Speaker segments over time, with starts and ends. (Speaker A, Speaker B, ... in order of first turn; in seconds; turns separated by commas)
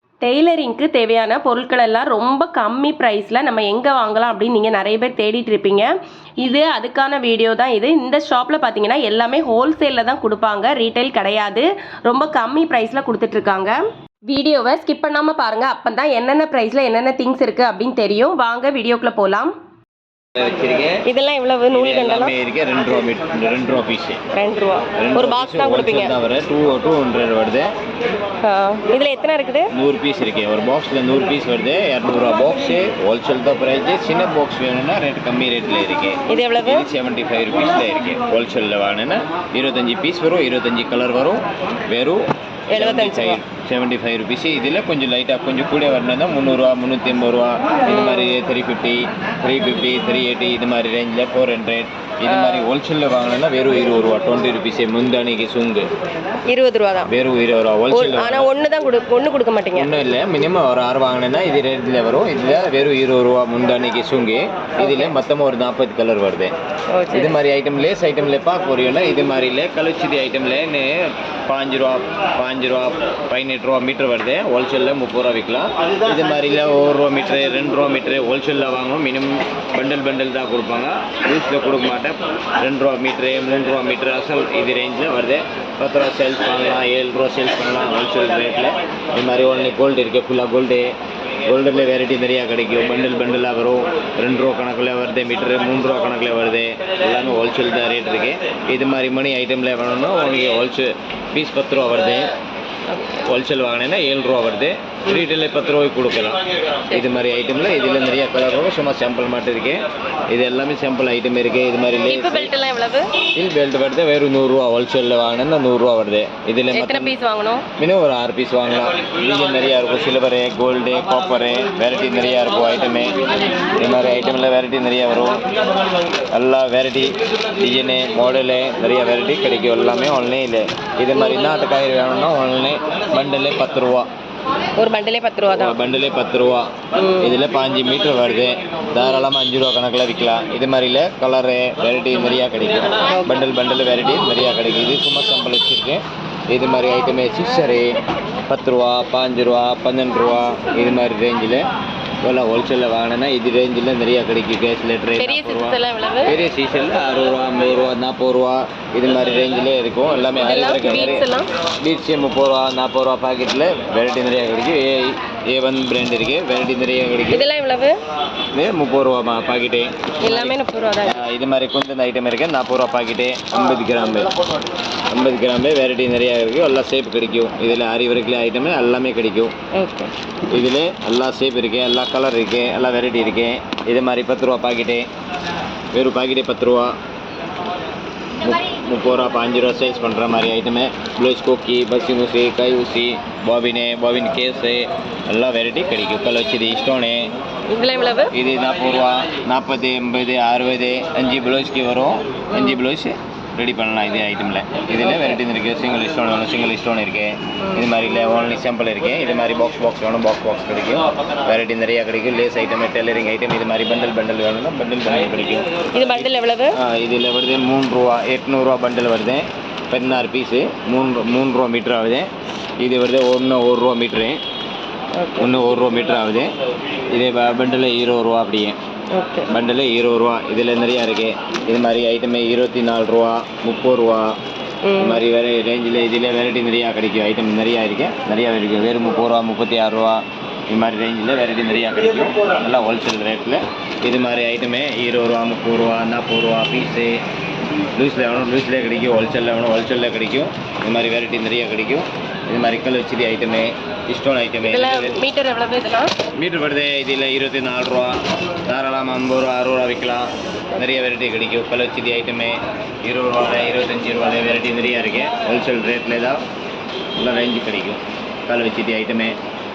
Speaker A: 0.2-5.9, Speaker A: 6.4-13.8, Speaker A: 14.3-19.5, Speaker B: 20.4-21.0, Speaker A: 21.0-22.3, Speaker B: 21.7-24.2, Speaker A: 24.3-26.1, Speaker B: 24.9-27.7, Speaker A: 28.4-29.7, Speaker B: 29.7-55.9, Speaker A: 36.3-36.8, Speaker A: 42.7-43.4, Speaker A: 47.9-48.3, Speaker A: 52.2-52.7, Speaker A: 56.5-57.1, Speaker B: 57.1-58.5, Speaker A: 57.9-59.9, Speaker B: 59.7-66.5, Speaker A: 64.8-65.2, Speaker A: 66.9-67.4, Speaker B: 67.1-90.9, Speaker B: 91.5-102.3, Speaker A: 102.9-103.2, Speaker B: 103.2-112.5, Speaker A: 112.0-113.1, Speaker B: 113.2-117.1, Speaker A: 116.7-117.6, Speaker B: 117.8-123.2, Speaker B: 123.8-125.4, Speaker B: 126.3-134.1, Speaker A: 131.2-131.5, Speaker A: 134.8-135.8, Speaker B: 135.5-136.7, Speaker A: 136.9-137.3, Speaker B: 137.2-151.7, Speaker A: 143.1-143.4, Speaker B: 152.2-167.5, Speaker A: 155.2-156.4, Speaker A: 160.4-161.5, Speaker A: 167.3-167.9, Speaker B: 168.5-174.3, Speaker A: 170.2-171.2, Speaker B: 175.1-179.5, Speaker A: 179.7-180.1, Speaker B: 180.5-185.1, Speaker B: 185.9-186.9, Speaker B: 188.4-197.3, Speaker A: 197.7-198.3, Speaker B: 198.3-222.3, Speaker A: 205.0-205.4, Speaker A: 207.6-207.9, Speaker A: 215.9-216.8, Speaker B: 222.8-224.4, Speaker A: 225.2-225.5, Speaker B: 225.4-226.5, Speaker B: 227.1-228.8, Speaker A: 229.1-229.5, Speaker B: 229.5-234.3, Speaker A: 234.8-235.2, Speaker B: 235.0-247.2, Speaker B: 247.9-255.2, Speaker A: 254.6-256.1, Speaker B: 256.3-266.4, Speaker B: 267.2-269.4